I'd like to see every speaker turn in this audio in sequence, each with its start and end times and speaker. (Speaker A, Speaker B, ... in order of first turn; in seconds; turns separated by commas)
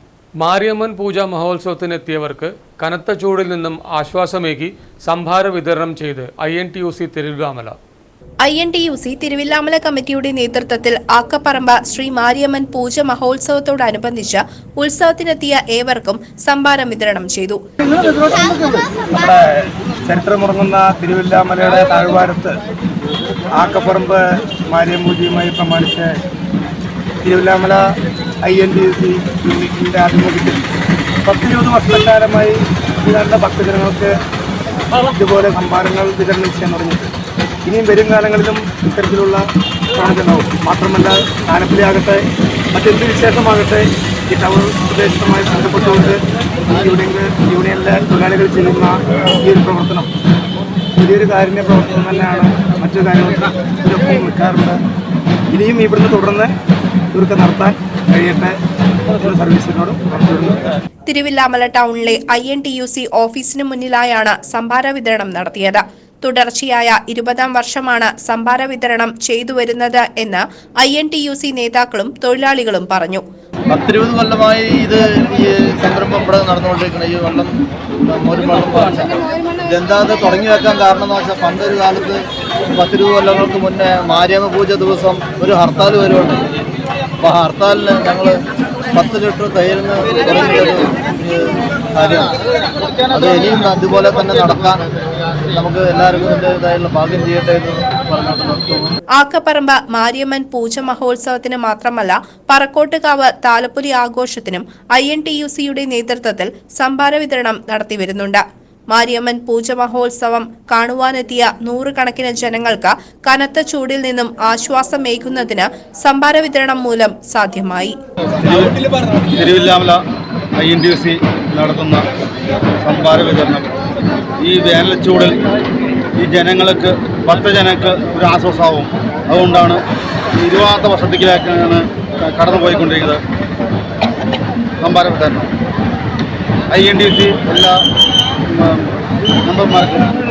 Speaker A: 0.4-7.8, Speaker B: 8.4-17.6, Speaker C: 17.9-22.6, Speaker C: 23.5-26.2, Speaker C: 27.2-27.8, Speaker C: 28.4-30.6, Speaker C: 31.2-34.1, Speaker C: 35.0-37.1, Speaker C: 37.6-50.1, Speaker C: 51.0-54.8, Speaker C: 55.5-56.5, Speaker C: 57.1-58.6, Speaker C: 59.1-60.7, Speaker B: 61.1-73.2, Speaker D: 73.7-86.5, Speaker D: 87.2-88.4, Speaker D: 88.9-92.4, Speaker D: 93.1-94.8, Speaker D: 95.5-99.0, Speaker B: 99.2-108.4, Speaker B: 108.9-118.0, Speaker E: 118.4-118.8, Speaker E: 119.4-120.0, Speaker E: 120.6-122.0, Speaker E: 122.8-123.7, Speaker E: 124.4-125.4, Speaker E: 126.2-129.8, Speaker E: 130.4-133.2, Speaker E: 134.8-135.5, Speaker E: 136.7-137.7, Speaker E: 138.5-138.8, Speaker E: 139.4-140.1